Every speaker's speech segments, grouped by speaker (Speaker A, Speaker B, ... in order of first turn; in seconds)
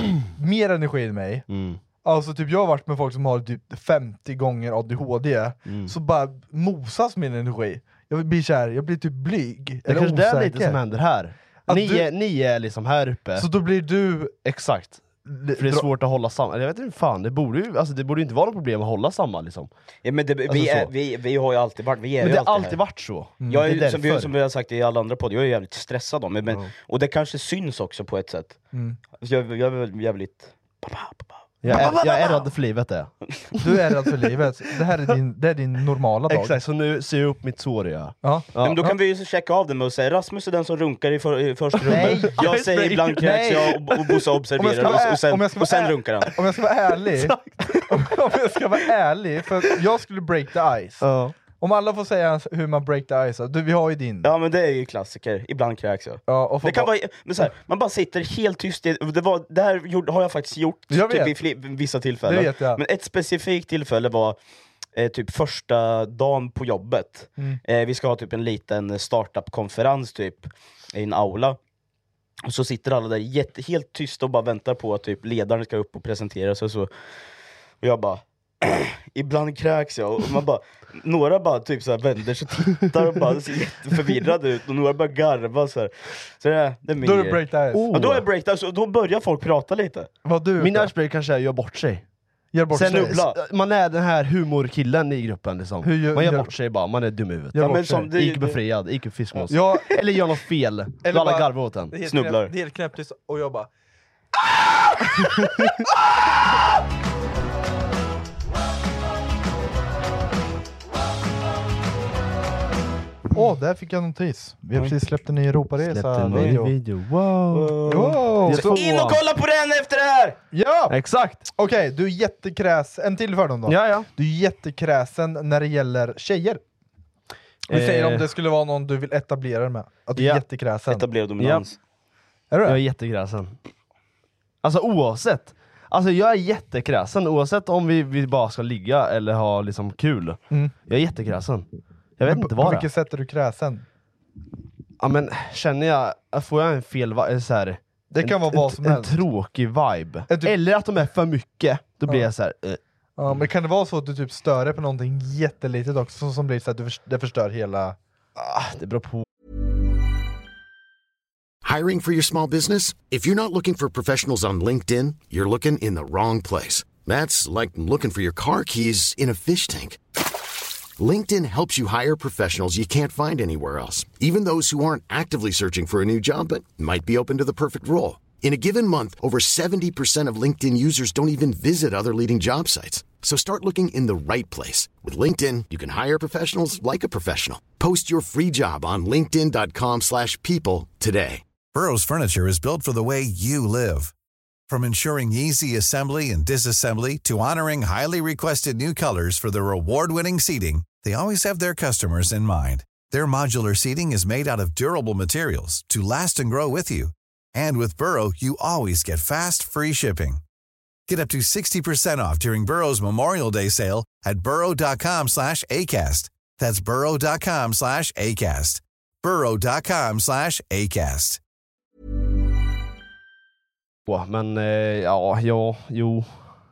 Speaker A: 0.3-1.5, 2.0-10.8, 11.7-12.1, 13.4-14.3, 15.2-15.9, 23.4-23.7, 28.7-29.0, 33.6-36.6, 38.2-39.0, 41.9-43.7, 44.6-47.4, 47.9-51.1, 51.6-54.3, 56.3-56.9, 60.9-61.4, 62.3-62.8, 87.0-87.9, 90.2-90.9, 92.5-93.2, 95.8-96.5, 97.5-98.1, 99.5-99.9, 101.0-103.7, 113.3-116.7, 117.9-118.8, 120.5-121.0, 121.5-126.6, 127.7-131.1, 132.5-132.8, 142.2-143.8, 148.1-149.2, 150.3-150.5, 153.2-158.0
Speaker B: 1.5-1.8, 5.7-5.9, 9.9-13.5, 14.4-15.0, 15.6-19.7, 20.5-20.9, 22.2-24.3, 31.6-33.8, 36.3-38.8, 41.8-43.6, 44.8-45.1, 47.1-47.5, 51.0-51.4, 87.7-88.2, 90.6-92.0, 92.7-102.0, 115.8-119.2, 120.9-121.5, 123.7-124.1, 127.7-128.3, 130.2-130.4, 131.4-131.7, 132.7-133.6, 134.6-142.9, 145.0-153.4, 158.4-159.2, 224.1-226.4
Speaker C: 20.1-22.8, 23.5-28.6, 29.2-32.1, 38.6-46.3, 54.2-64.4, 65.0-71.6, 72.5-76.9, 77.8-90.1, 92.8-93.4, 97.6-98.6, 102.0-102.5, 117.5-120.4, 130.9-131.8
Speaker D: 161.6-170.0, 171.0-191.4
Speaker E: 191.7-194.1, 194.7-210.4, 211.1-221.4